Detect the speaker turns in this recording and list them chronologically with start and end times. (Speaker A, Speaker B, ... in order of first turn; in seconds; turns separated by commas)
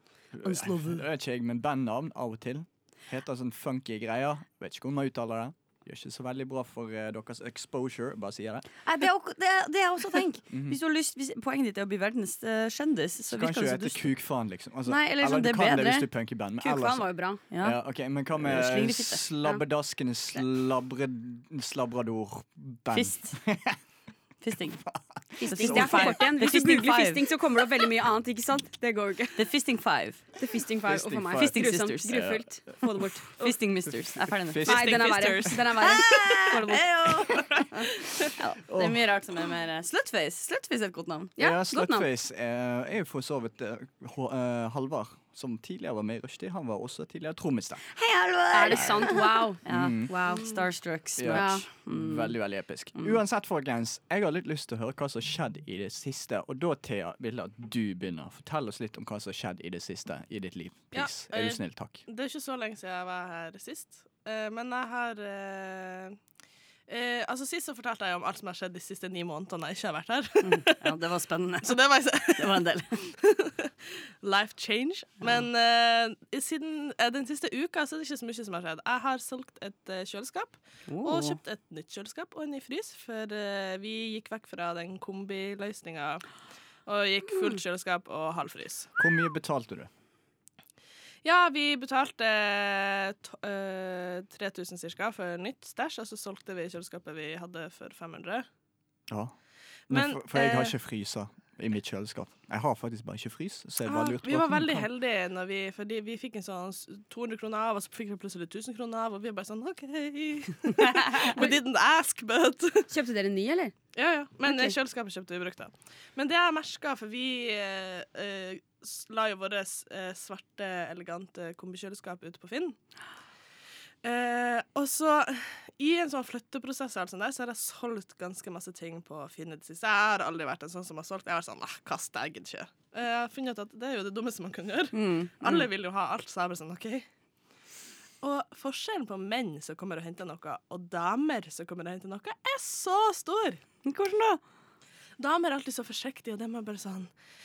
Speaker A: 0.3-8.7, Speaker B: 0.4-1.0, Speaker B: 8.8-14.1, Speaker A: 10.5-10.8, Speaker A: 13.3-23.8, Speaker B: 14.8-16.1, Speaker C: 16.6-17.4, Speaker B: 17.5-17.8, Speaker B: 18.4-19.2, Speaker B: 22.9-23.4, Speaker B: 24.4-24.8, Speaker A: 24.8-26.3, Speaker C: 25.4-29.4, Speaker B: 25.4-27.2, Speaker B: 29.4-30.2, Speaker C: 30.4-33.5, Speaker A: 30.8-32.8, Speaker B: 31.3-32.2, Speaker B: 33.4-41.3, Speaker A: 34.5-35.4, Speaker C: 34.6-37.4, Speaker A: 38.7-39.0, Speaker C: 41.4-42.0, Speaker A: 41.4-47.8, Speaker B: 47.9-52.4, Speaker C: 48.5-50.5, Speaker A: 49.7-50.1, Speaker A: 51.2-62.0, Speaker C: 51.3-51.6, Speaker D: 60.9-66.2, Speaker D: 66.9-70.8, Speaker B: 70.4-73.0, Speaker D: 71.6-72.6, Speaker D: 73.2-73.7, Speaker D: 74.2-86.2, Speaker B: 80.9-81.4, Speaker D: 86.8-88.9, Speaker A: 89.0-89.9, Speaker D: 91.2-98.5, Speaker D: 99.9-100.7, Speaker A: 99.9-104.9, Speaker D: 103.8-112.9, Speaker C: 111.2-111.5, Speaker C: 112.9-113.7, Speaker D: 113.9-122.8, Speaker C: 114.5-114.7, Speaker D: 124.0-137.1, Speaker B: 134.9-135.7, Speaker D: 138.2-143.6, Speaker B: 143.8-144.4, Speaker D: 145.2-147.1